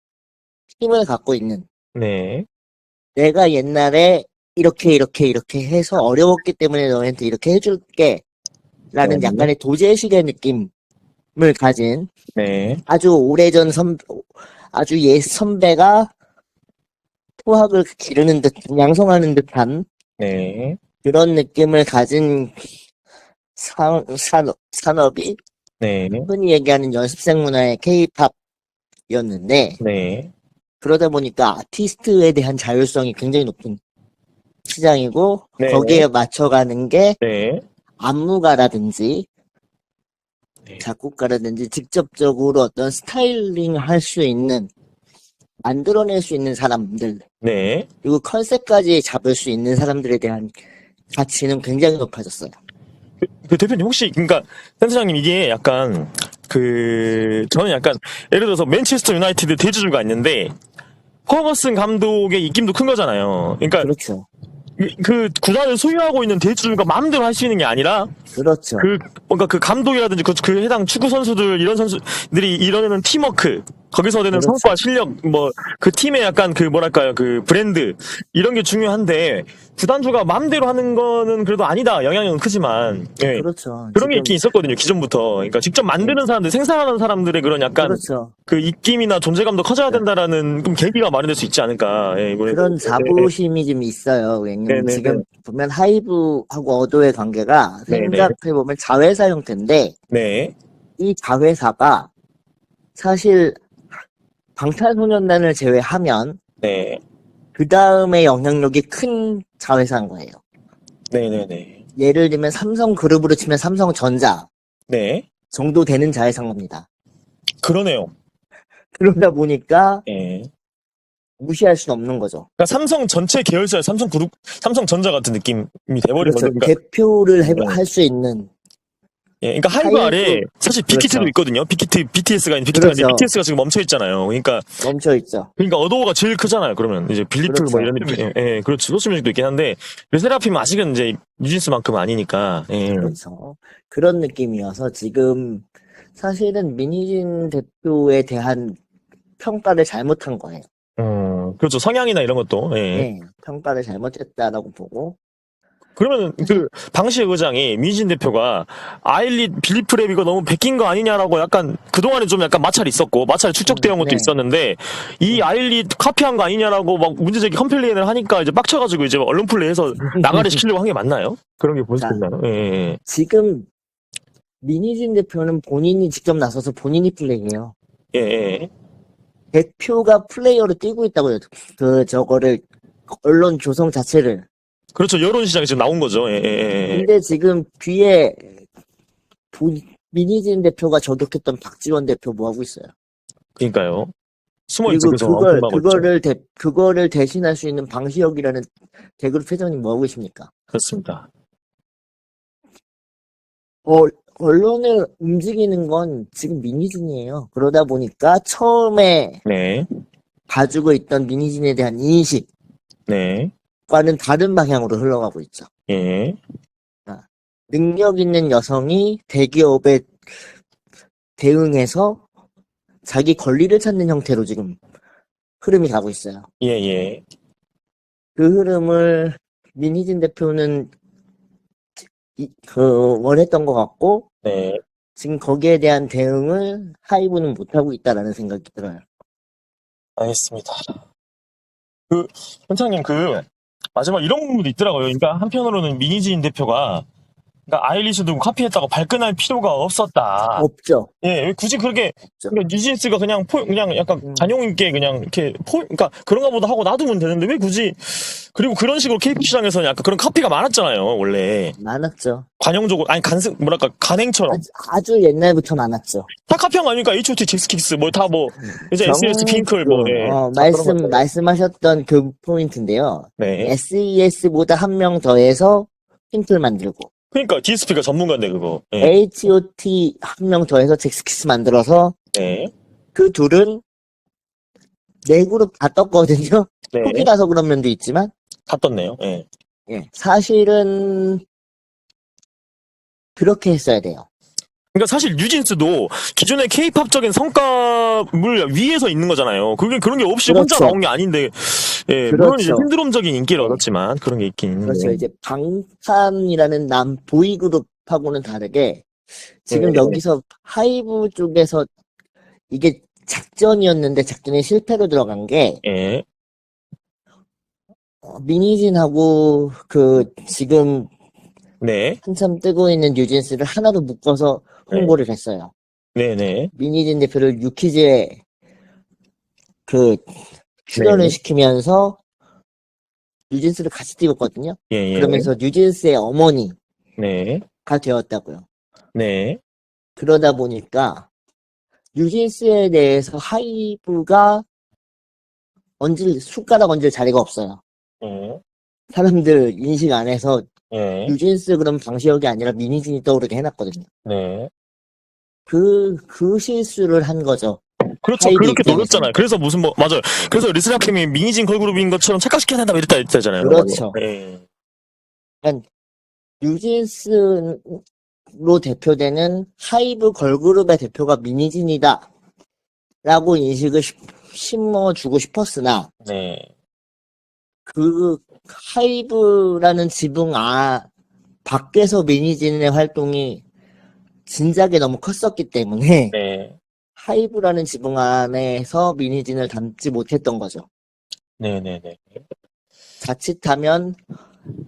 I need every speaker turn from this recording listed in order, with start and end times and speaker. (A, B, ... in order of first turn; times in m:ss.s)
0:00.8-0:01.6 A
0:02.0-0:02.5 B
0:03.2-0:08.2 A
0:08.9-0:10.7 A
0:09.0-0:09.5 B
0:11.4-0:12.1 A
0:12.4-0:12.8 B
0:12.9-0:16.1 A
0:17.4-0:19.9 A
0:20.2-0:20.8 B
0:21.0-0:22.6 A
0:23.6-0:25.4 A
0:25.8-0:26.3 B
0:26.2-0:28.4 A
0:29.1-0:29.8 A
0:29.8-0:30.3 B
0:30.8-0:33.8 A
0:34.7-0:37.2 A
0:35.6-0:36.1 B
0:37.2-0:37.6 B
0:38.0-0:39.3 A
0:40.8-0:44.7 A
0:45.6-0:47.2 A
0:47.4-0:47.9 B
0:48.0-0:50.5 A
0:51.2-0:52.6 A
0:53.4-1:00.5 B
1:01.3-1:03.9 B
1:03.8-1:04.3 A
1:04.8-1:08.1 B
1:08.3-1:08.9 A
1:08.8-1:33.3 B
1:14.3-1:14.7 A
1:23.3-1:24.4 A
1:27.8-1:28.3 A
1:32.5-1:39.9 A
1:34.7-1:35.2 B
1:37.9-1:38.3 B
1:40.1-1:40.6 B
1:41.0-1:42.1 A
1:43.0-1:43.6 A
1:44.6-1:46.4 A
1:46.6-1:47.0 B
1:47.6-1:50.4 A
1:51.1-1:51.8 B
1:52.0-1:54.5 A
1:54.9-1:55.3 B
1:55.5-1:56.8 A
1:57.6-1:58.1 B
1:59.0-2:00.0 A
2:00.1-2:00.5 B
2:01.4-2:02.5 A
2:02.6-2:06.7 B
2:06.2-2:08.5 A
2:07.4-2:07.8 B
2:09.4-2:14.7 B
2:09.8-2:11.3 A
2:12.7-2:13.3 A
2:14.8-2:15.5 A
2:15.6-2:23.2 B
2:17.5-2:18.3 A
2:22.9-2:25.6 A
2:26.2-2:28.8 A
2:29.4-2:30.6 A
2:31.0-2:33.1 B
2:32.9-2:35.2 A
2:36.0-2:53.0 B
2:36.4-2:36.7 A
2:43.7-2:44.4 A
2:50.1-2:50.6 A
2:52.0-2:52.2 A
2:53.1-2:53.7 A
2:54.6-2:57.7 A
2:58.1-2:58.7 B
2:59.5-3:04.5 A
3:05.0-3:07.1 B
3:06.9-3:08.5 A
3:09.5-3:12.9 A
3:13.6-3:14.1 B
3:14.7-3:16.1 B
3:14.9-3:20.5 A
3:20.7-3:21.3 B
3:23.9-3:29.4 A
3:29.5-3:29.9 B
3:30.5-3:32.5 A
3:33.1-3:33.5 B
3:33.9-3:35.7 A
3:35.9-3:36.4 B
3:37.1-3:40.1 A
3:41.4-3:42.2 A
3:43.1-3:44.8 A
3:45.6-3:46.5 A
3:46.6-3:47.2 B
3:48.4-3:50.9 A
3:52.4-3:54.3 A
3:54.4-3:54.8 B
3:55.2-3:59.0 A
4:00.2-4:00.8 B
4:02.1-4:07.1 B
4:07.7-4:10.7 B
4:10.6-4:11.1 A
4:11.2-4:21.8 B
4:14.2-4:14.6 A
4:21.8-4:22.4 A
4:22.6-4:24.6 B
4:24.5-4:26.3 A
4:26.4-4:31.2 B
4:28.6-4:37.1 A
4:33.4-4:33.8 B
4:37.3-4:39.1 B
4:39.0-4:42.2 A
4:42.3-4:42.7 B
4:43.2-4:43.8 A
4:45.2-4:48.3 A
4:46.9-4:47.3 B
4:48.7-4:49.5 B
4:49.9-4:51.4 A
4:53.4-4:54.3 A
4:54.9-5:05.2 B
5:00.5-5:01.0 A
5:02.3-5:02.9 A
5:04.8-5:09.1 A
5:09.7-5:11.9 A
5:09.7-5:10.2 B
5:12.7-5:15.8 A
5:15.8-5:16.2 B
5:18.2-5:21.1 A
5:21.8-5:22.2 B
5:22.2-5:25.7 A
5:24.9-5:25.2 B
5:26.2-5:26.7 B
5:26.8-5:28.4 A
5:29.9-5:30.2 A
5:30.9-5:32.2 A
5:31.0-5:31.4 B
5:33.5-5:36.8 A
5:34.9-5:35.5 B
5:37.2-5:37.6 B
5:37.9-5:38.6 A
5:39.1-5:39.6 B
5:40.2-5:41.3 A
5:42.2-5:44.6 A
5:46.0-5:47.8 A
5:48.2-5:48.6 B
5:49.1-5:50.7 A
5:50.9-5:51.4 B
5:51.3-5:54.1 A
5:54.2-5:54.7 B
5:55.7-5:57.8 A
5:58.2-6:04.6 B
5:58.4-5:59.4 A
6:03.6-6:04.2 A
6:06.6-6:08.0 A
6:08.6-6:12.3 A
6:13.2-6:16.1 A
6:16.2-6:16.7 B
6:17.9-6:21.1 A
6:21.6-6:23.6 A
6:24.5-6:26.3 A
6:26.3-6:26.8 B
6:27.2-6:30.9 A
6:31.6-6:32.4 B
6:33.2-6:34.2 A